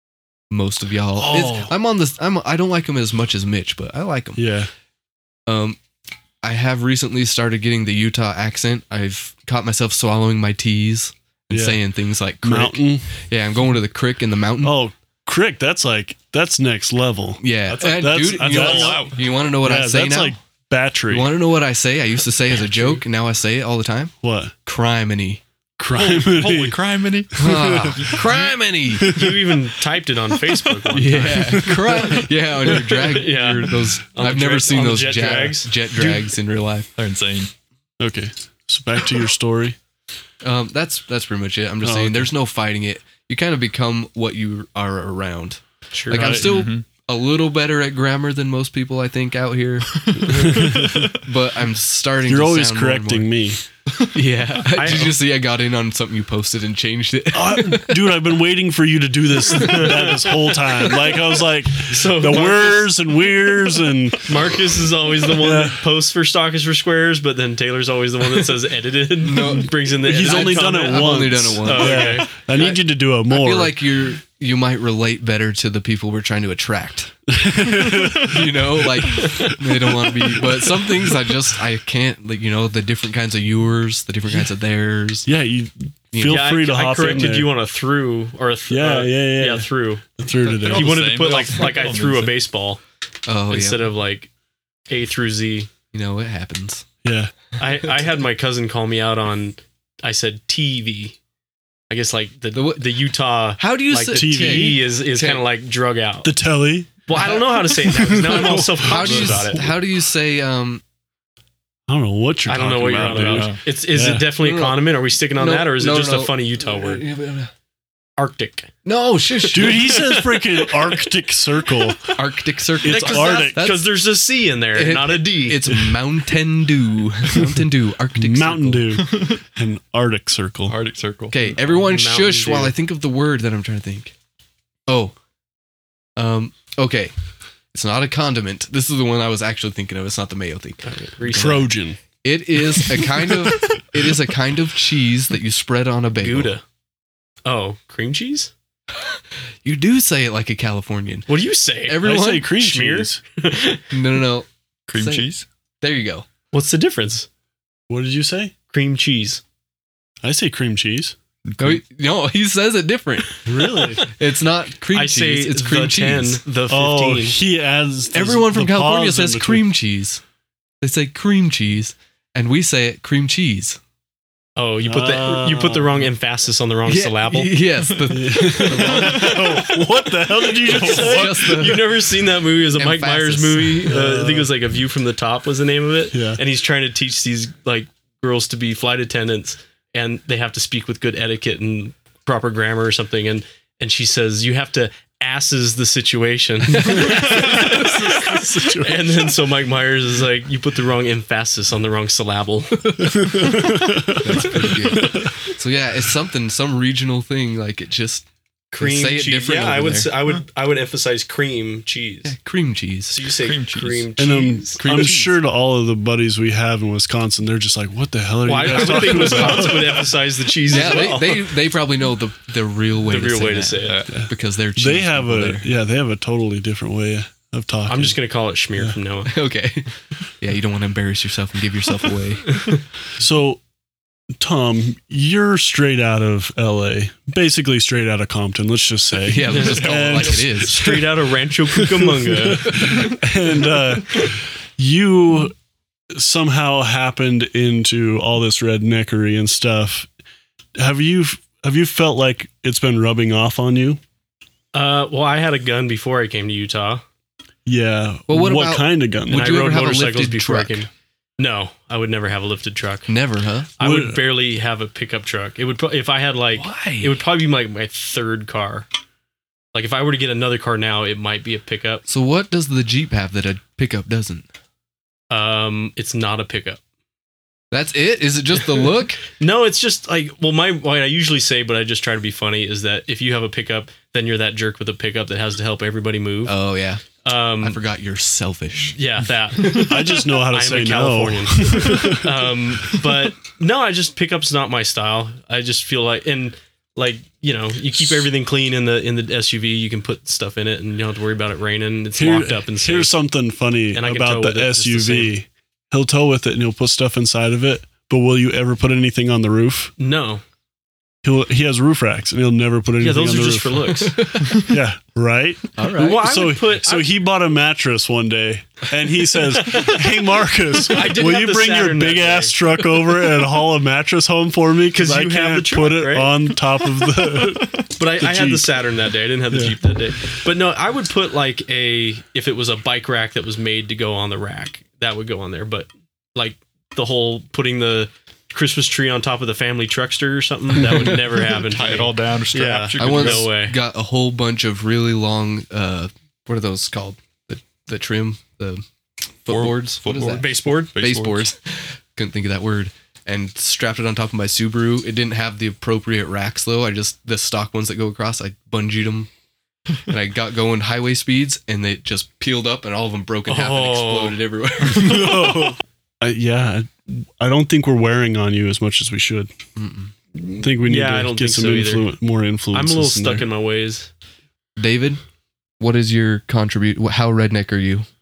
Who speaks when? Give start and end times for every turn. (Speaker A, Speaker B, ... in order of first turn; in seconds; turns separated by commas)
Speaker A: 0.5-4.4, Speaker B: 1.2-1.7, Speaker B: 4.4-4.7, Speaker A: 5.5-5.8, Speaker A: 6.4-14.8, Speaker B: 11.5-11.8, Speaker B: 12.4-13.2, Speaker B: 14.6-21.3, Speaker A: 17.4-20.4, Speaker C: 18.4-19.2, Speaker A: 21.1-24.1, Speaker B: 24.2-24.5, Speaker A: 24.6-25.4, Speaker B: 25.8-26.8, Speaker C: 25.9-27.4, Speaker B: 27.3-28.2, Speaker A: 27.4-29.1, Speaker C: 28.0-28.4, Speaker B: 29.0-29.6, Speaker D: 29.1-31.6, Speaker A: 30.9-36.9, Speaker B: 31.3-32.3, Speaker D: 32.6-36.3, Speaker C: 37.0-37.5, Speaker B: 38.0-39.8, Speaker A: 40.4-53.4, Speaker B: 41.8-42.3, Speaker D: 45.9-46.4, Speaker B: 46.1-46.5, Speaker C: 46.2-46.8, Speaker C: 49.9-51.2, Speaker B: 50.2-51.1, Speaker B: 52.3-53.6, Speaker C: 53.9-55.1, Speaker A: 54.1-58.0, Speaker D: 54.7-55.2, Speaker B: 57.3-64.5, Speaker D: 59.4-72.6, Speaker B: 65.4-65.8, Speaker A: 69.2-77.1, Speaker B: 70.0-73.8, Speaker B: 77.3-81.2, Speaker C: 77.7-78.4, Speaker A: 78.2-85.3, Speaker B: 85.2-87.5, Speaker A: 86.1-86.4, Speaker D: 86.2-90.0, Speaker B: 88.7-91.0, Speaker C: 90.4-92.4, Speaker D: 90.6-92.8, Speaker A: 93.2-93.9, Speaker D: 93.5-94.3, Speaker D: 94.9-95.7, Speaker A: 95.9-96.8, Speaker B: 97.0-97.3, Speaker D: 97.6-101.2, Speaker D: 101.9-106.3, Speaker A: 102.5-102.9, Speaker A: 103.6-105.4, Speaker B: 104.1-104.9, Speaker B: 106.2-107.0, Speaker D: 107.0-109.7, Speaker B: 107.6-109.7, Speaker A: 108.4-110.8, Speaker B: 111.9-114.3, Speaker D: 112.5-117.0, Speaker C: 113.2-113.6, Speaker A: 114.4-117.5, Speaker D: 118.2-118.7, Speaker A: 118.8-120.1, Speaker D: 119.4-120.7, Speaker B: 119.5-122.2, Speaker A: 122.1-123.9, Speaker B: 122.8-123.6, Speaker D: 122.8-125.9, Speaker A: 124.7-128.9, Speaker B: 127.3-127.6, Speaker B: 128.2-130.8, Speaker C: 129.0-129.4, Speaker C: 130.7-131.5, Speaker A: 131.3-134.1, Speaker D: 131.7-132.7, Speaker A: 134.9-135.1, Speaker A: 136.2-137.1, Speaker A: 137.7-141.6, Speaker D: 140.8-141.7, Speaker B: 141.3-142.0, Speaker A: 142.2-146.5, Speaker D: 146.2-146.6, Speaker D: 147.4-148.5, Speaker A: 148.9-151.3, Speaker D: 151.3-153.9, Speaker A: 151.9-152.6, Speaker B: 151.9-153.2, Speaker A: 153.9-155.3, Speaker C: 154.9-155.4, Speaker A: 155.8-156.2, Speaker D: 156.5-157.3, Speaker B: 157.9-158.5, Speaker D: 158.7-159.4, Speaker B: 160.2-161.1, Speaker C: 161.4-161.8, Speaker A: 161.6-163.3, Speaker B: 163.4-164.1, Speaker D: 163.4-164.0, Speaker A: 164.0-166.4, Speaker D: 164.9-167.4, Speaker B: 166.7-169.7, Speaker A: 168.1-170.2, Speaker A: 170.8-173.8, Speaker D: 174.6-177.6, Speaker B: 174.8-176.1, Speaker A: 176.8-179.6, Speaker C: 177.9-178.2, Speaker B: 178.1-181.6, Speaker D: 178.8-179.7, Speaker C: 179.2-179.4, Speaker D: 180.6-203.2, Speaker C: 180.7-181.1, Speaker A: 180.8-183.9, Speaker B: 183.8-184.5, Speaker B: 186.1-186.4, Speaker B: 196.8-199.3, Speaker A: 196.9-197.4, Speaker B: 203.0-205.3, Speaker A: 204.2-210.2, Speaker D: 208.7-212.3, Speaker A: 212.2-213.2, Speaker D: 213.1-215.2, Speaker C: 213.3-214.1, Speaker B: 214.2-220.0, Speaker A: 214.8-215.2, Speaker C: 214.9-215.2, Speaker D: 218.4-221.6, Speaker A: 218.8-219.7, Speaker A: 220.7-225.7, Speaker D: 223.1-224.0, Speaker C: 223.8-224.2, Speaker B: 224.1-228.2, Speaker D: 227.9-229.3, Speaker A: 229.2-232.6, Speaker D: 232.5-232.8, Speaker B: 233.2-233.6, Speaker B: 234.4-245.5, Speaker A: 239.3-240.9, Speaker C: 239.6-240.4, Speaker D: 240.6-243.1, Speaker B: 246.1-250.1, Speaker B: 250.8-254.0, Speaker D: 254.7-257.0, Speaker B: 257.6-259.5, Speaker A: 258.3-260.9, Speaker D: 259.3-263.1, Speaker A: 263.1-263.7, Speaker D: 263.8-268.9, Speaker B: 263.8-264.2, Speaker A: 266.5-267.2, Speaker D: 269.7-272.0, Speaker A: 272.1-274.4, Speaker D: 275.3-276.8, Speaker A: 277.7-279.2, Speaker D: 279.2-286.6, Speaker A: 286.4-287.0, Speaker D: 287.2-287.8, Speaker A: 287.6-289.0, Speaker D: 288.9-303.1, Speaker B: 289.9-292.5, Speaker B: 302.2-309.9, Speaker D: 303.9-305.3, Speaker D: 310.0-310.4, Speaker B: 311.2-328.8, Speaker D: 313.0-314.3, Speaker A: 314.1-314.5, Speaker A: 315.8-316.3, Speaker D: 315.8-317.1, Speaker D: 319.5-319.9, Speaker D: 320.9-322.6, Speaker D: 324.9-326.5, Speaker D: 328.0-343.8, Speaker B: 329.5-329.8, Speaker C: 341.5-343.5, Speaker A: 343.0-348.8, Speaker A: 349.4-359.3, Speaker C: 349.5-351.5, Speaker D: 350.2-350.9, Speaker A: 360.1-365.4, Speaker D: 363.5-364.4, Speaker B: 364.9-369.5, Speaker A: 369.8-370.1, Speaker D: 370.3-372.1, Speaker B: 370.6-373.5, Speaker D: 372.7-374.1, Speaker A: 374.8-375.2, Speaker A: 375.8-378.1